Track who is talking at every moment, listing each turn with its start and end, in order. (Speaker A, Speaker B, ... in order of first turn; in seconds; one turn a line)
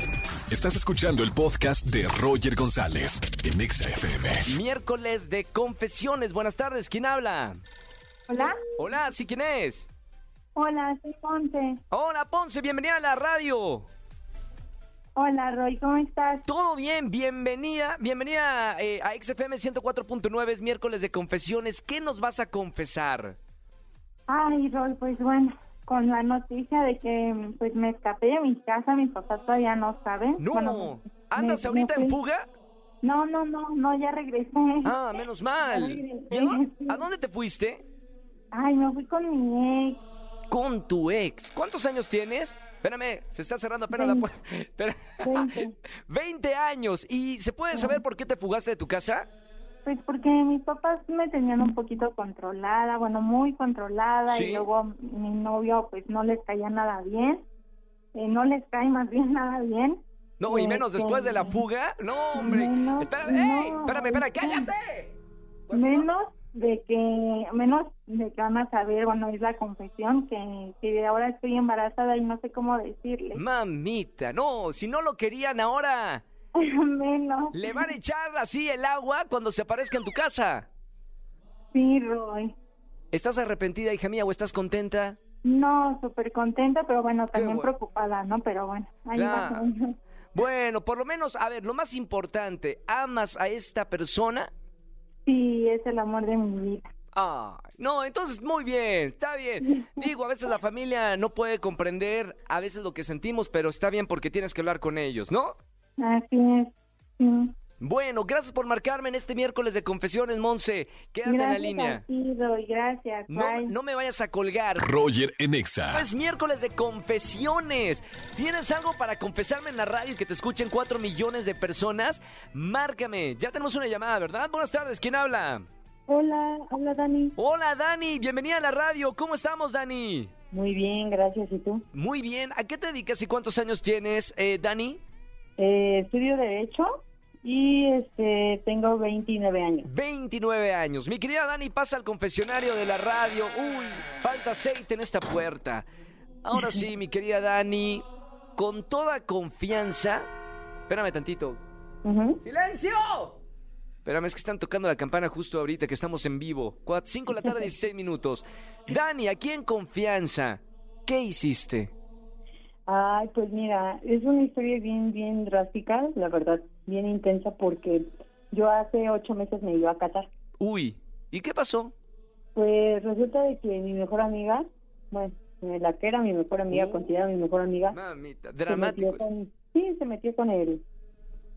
Speaker A: 0.5-4.5
Speaker B: 4.5-7.6
Speaker C: 8.3-8.6
Speaker B: 8.8-9.9
Speaker C: 10.5-11.8
Speaker B: 11.9-13.9
Speaker C: 15.2-16.4
Speaker B: 16.4-23.4
Speaker C: 24.3-32.2
Speaker B: 30.4-32.5
Speaker C: 33.0-35.0
Speaker B: 34.8-37.8
Speaker C: 35.6-37.0
Speaker C: 38.5-40.0
Speaker B: 40.5-49.3
Speaker C: 43.9-44.3
Speaker C: 45.2-45.7
Speaker C: 47.7-48.0
Speaker C: 49.8-57.5
Speaker B: 54.3-54.7
Speaker C: 58.1-61.6
Speaker B: 60.4-65.2
Speaker C: 62.3-64.7
Speaker B: 65.7-66.1
Speaker C: 65.7-73.4
Speaker B: 73.3-76.2
Speaker C: 76.5-77.9
Speaker B: 77.5-80.7
Speaker C: 81.7-82.5
Speaker B: 83.1-85.2
Speaker C: 85.4-90.0
Speaker B: 87.3-87.7
Speaker B: 89.1-89.7
Speaker B: 90.3-94.5
Speaker C: 95.2-96.9
Speaker B: 97.1-105.6
Speaker C: 99.6-100.1
Speaker C: 106.0-107.5
Speaker B: 107.8-112.0
Speaker C: 111.2-113.8
Speaker B: 113.3-114.9
Speaker A: 114.8-116.0
Speaker B: 115.9-125.7
Speaker D: 126.1-127.4
Speaker B: 127.4-130.3
Speaker D: 130.5-131.8
Speaker B: 131.9-135.0
Speaker D: 135.6-139.9
Speaker B: 139.8-145.9
Speaker B: 146.4-148.1
Speaker D: 146.6-146.8
Speaker B: 148.6-150.3
Speaker B: 150.9-151.6
Speaker D: 152.0-152.4
Speaker B: 152.4-153.4
Speaker B: 154.1-161.9
Speaker D: 162.9-170.3
Speaker B: 170.6-171.9
Speaker D: 172.6-178.0
Speaker B: 176.7-177.1
Speaker B: 177.9-179.3
Speaker D: 178.7-180.8